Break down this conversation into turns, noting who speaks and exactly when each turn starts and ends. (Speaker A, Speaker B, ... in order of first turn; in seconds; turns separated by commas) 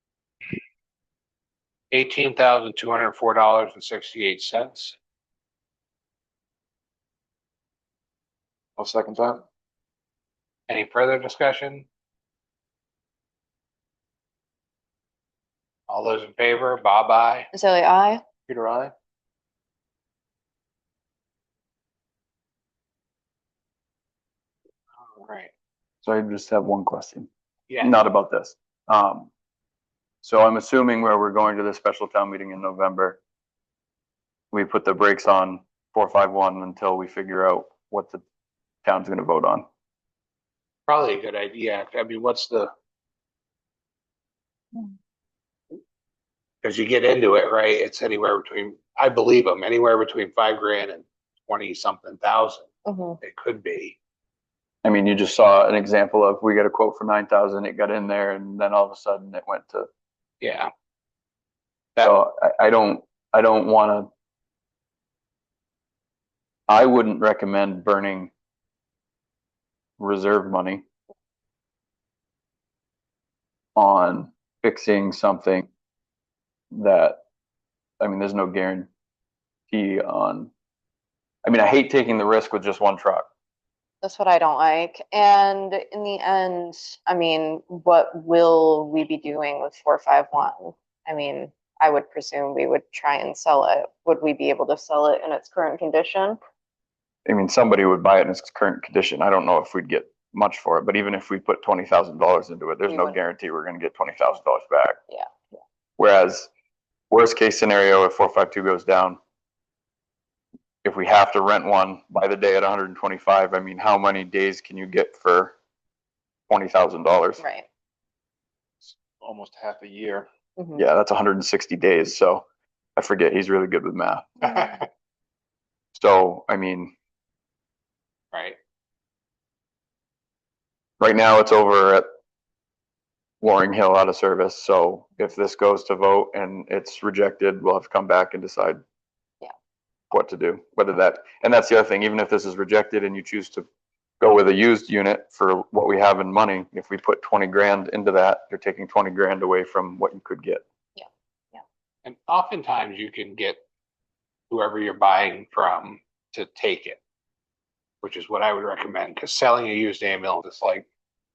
Speaker A: 1.9-5.0, Speaker B: 8.8-9.4, Speaker A: 10.7-11.9, Speaker A: 15.9-17.5, Speaker C: 17.5-18.2, Speaker B: 18.5-18.9, Speaker A: 25.1-25.5, Speaker D: 26.0-27.3, Speaker A: 27.7-28.0, Speaker D: 27.8-29.3, Speaker D: 30.2-33.2, Speaker D: 34.5-38.2, Speaker D: 38.8-39.7, Speaker A: 40.9-42.7, Speaker A: 46.6-52.7, Speaker C: 52.9-53.2, Speaker A: 53.2-54.0, Speaker D: 54.8-59.9, Speaker A: 60.4-60.7, Speaker D: 62.0-64.1, Speaker D: 66.7-68.3, Speaker D: 70.0-70.8, Speaker D: 73.8-75.7, Speaker D: 76.7-77.2, Speaker D: 78.0-78.9, Speaker D: 79.7-80.5, Speaker D: 81.5-83.3, Speaker C: 84.0-96.4, Speaker D: 97.3-105.0, Speaker C: 102.9-103.2, Speaker D: 106.0-106.5, Speaker D: 107.1-109.2, Speaker D: 110.8-115.5, Speaker D: 116.5-117.4, Speaker C: 117.4-117.7, Speaker B: 118.8-120.3, Speaker C: 120.6-120.8, Speaker D: 120.8-122.5, Speaker D: 123.0-124.6, Speaker D: 126.0-126.9, Speaker A: 128.3-128.6, Speaker D: 131.0-132.1, Speaker D: 133.4-138.8, Speaker D: 140.1-143.7, Speaker D: 144.2-150.6, Speaker C: 151.0-151.6, Speaker A: 152.1-153.6, Speaker A: 154.5-157.0, Speaker A: 158.0-160.9